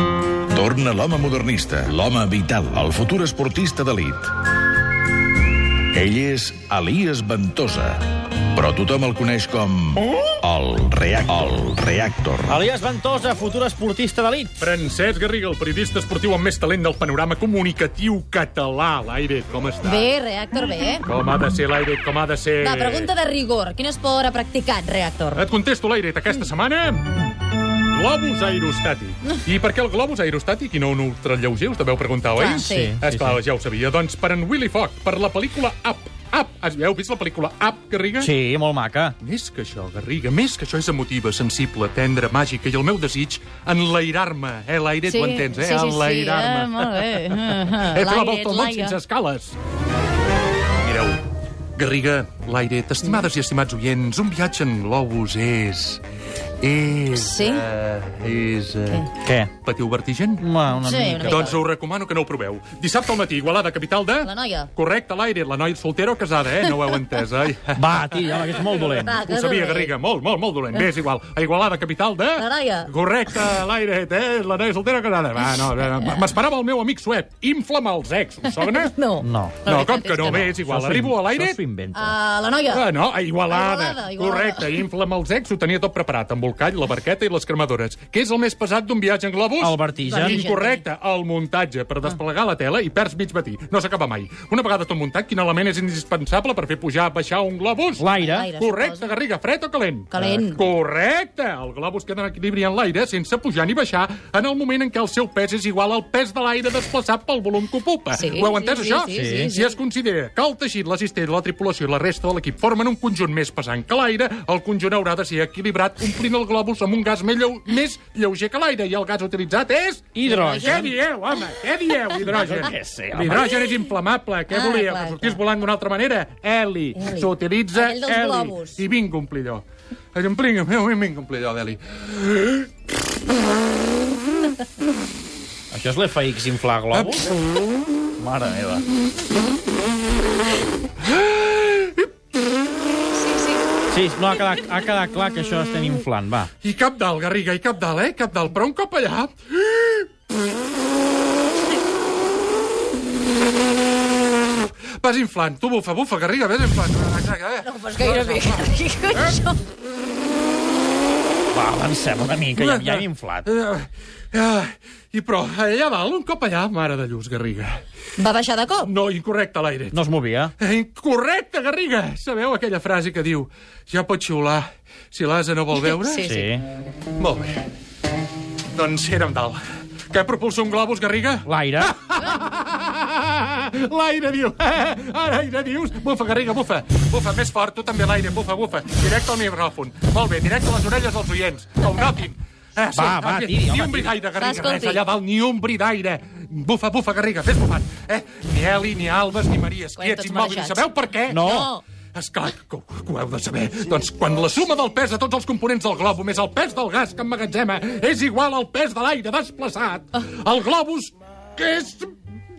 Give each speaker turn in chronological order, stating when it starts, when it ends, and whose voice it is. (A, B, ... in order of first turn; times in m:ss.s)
0:00.5-0:04.3 A
0:05.9-0:12.6 A
0:12.5-0:14.6 B
0:14.6-0:20.1 C
0:19.8-0:21.0 D
0:21.0-0:23.1 C
0:22.6-0:25.4 D
0:25.3-0:27.2 C
0:27.9-0:38.3 C
0:32.3-0:33.0 D
0:32.5-0:33.4 B
0:38.2-0:39.2 B
0:39.2-0:49.6 C
0:45.0-0:49.0 D
0:50.8-0:51.2 C
0:51.8-0:56.0 C
0:56.6-0:59.1 C
0:57.1-0:57.7 D
0:59.2-0:59.5 B
0:59.6-1:00.5 C
1:00.4-1:01.5 B
1:00.7-1:01.6 D
1:01.2-1:18.9 C
1:04.2-1:04.7 D
1:07.8-1:09.2 B
1:09.0-1:09.9 D
1:12.3-1:12.9 D
1:16.0-1:16.2 D
1:18.4-1:20.5 D
1:19.2-1:22.2 B
1:19.6-1:21.6 C
1:21.9-1:22.9 D
1:22.7-2:09.6 C
1:23.4-1:24.8 D
1:29.6-1:30.4 B
1:30.0-1:30.8 D
1:38.0-1:38.5 B
1:38.1-1:39.1 D
1:40.1-1:40.6 D
1:40.1-1:40.5 B
1:48.1-1:49.8 D
1:49.1-1:49.5 B
2:00.1-2:01.0 B
2:00.3-2:01.0 D
2:02.2-2:02.6 D
2:02.2-2:03.6 B
2:03.4-2:03.9 D
2:04.5-2:05.4 D
2:06.9-2:08.8 D
2:10.1-2:12.7 C
2:15.7-2:17.3 B
2:16.9-2:17.3 C
2:18.2-2:18.8 B
2:21.0-2:22.1 C
2:23.2-2:23.6 D
2:23.9-2:26.5 B
2:26.6-2:30.1 C
2:35.0-2:39.4 C
2:37.6-2:39.6 D
2:41.5-2:43.4 B
2:42.6-2:47.8 C
2:48.2-2:48.9 D
2:48.8-2:50.0 C
2:49.9-2:50.5 B
2:50.6-2:56.4 C
2:55.7-2:56.5 D
2:56.2-2:56.6 B
2:57.2-2:57.7 C
2:58.7-3:32.1 C
3:01.4-3:02.0 B
3:12.9-3:14.2 B
3:14.3-3:15.0 D
3:20.0-3:21.8 D
3:21.3-3:21.7 B